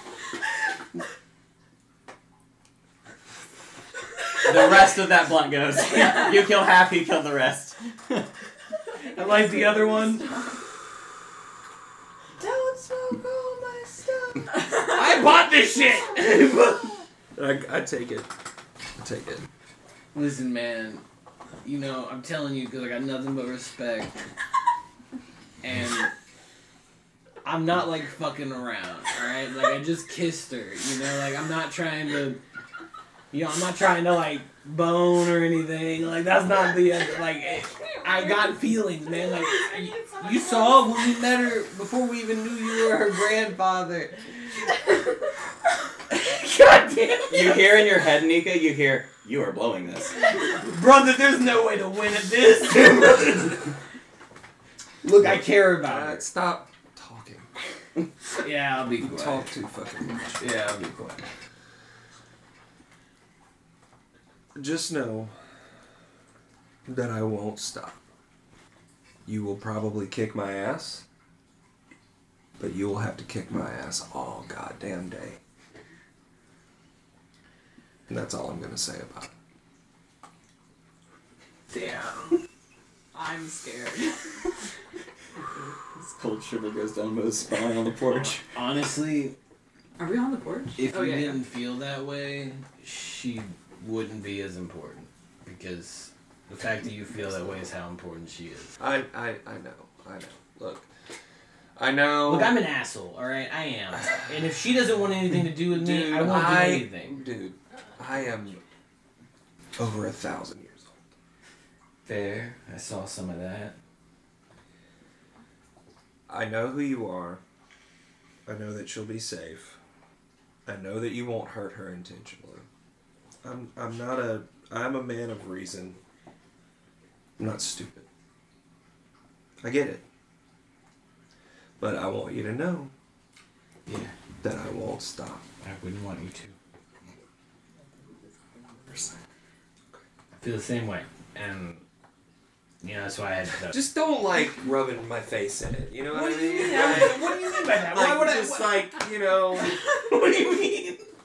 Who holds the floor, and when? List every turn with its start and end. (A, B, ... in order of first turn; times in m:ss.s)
0:04.4-0:08.3 A
0:09.1-0:10.3 B
0:12.4-0:15.0 C
0:14.9-0:16.9 B
0:17.3-0:18.3 D
0:19.0-0:19.4 D
0:20.1-0:21.0 B
0:21.6-0:24.1 B
0:25.6-0:26.1 B
0:27.4-0:32.4 B
0:33.3-0:44.7 B
0:46.1-0:47.7 B
0:47.3-0:50.3 A
0:50.5-0:53.7 B
0:55.0-0:56.2 B
0:55.2-0:57.5 D
0:58.4-0:59.5 B
0:59.0-1:00.5 D
1:00.4-1:01.3 B
1:04.5-1:05.3 D
1:06.8-1:08.0 D
1:09.2-1:11.0 D
1:12.6-1:15.4 D
1:18.1-1:19.3 D
1:21.7-1:22.3 B
1:23.1-1:24.3 E
1:25.9-1:28.4 A
1:28.5-1:29.4 B
1:30.0-1:31.4 E
1:30.8-1:38.7 B
1:38.8-1:40.9 D
1:41.8-1:42.6 D
1:42.2-1:47.2 B
1:45.6-1:48.6 D
1:49.8-1:51.0 D
1:52.0-1:53.7 B
1:56.3-1:57.4 D
1:58.4-1:59.8 D
2:00.6-2:02.6 D
2:03.4-2:06.0 D
2:07.4-2:08.0 D
2:09.6-2:10.0 D
2:11.8-2:12.9 D
2:13.9-2:14.1 A
2:14.4-2:15.4 D
2:15.6-2:16.5 B
2:18.9-2:19.2 D
2:20.4-2:21.8 B
2:22.8-2:23.8 B
2:23.6-2:29.8 D
2:26.1-2:31.0 B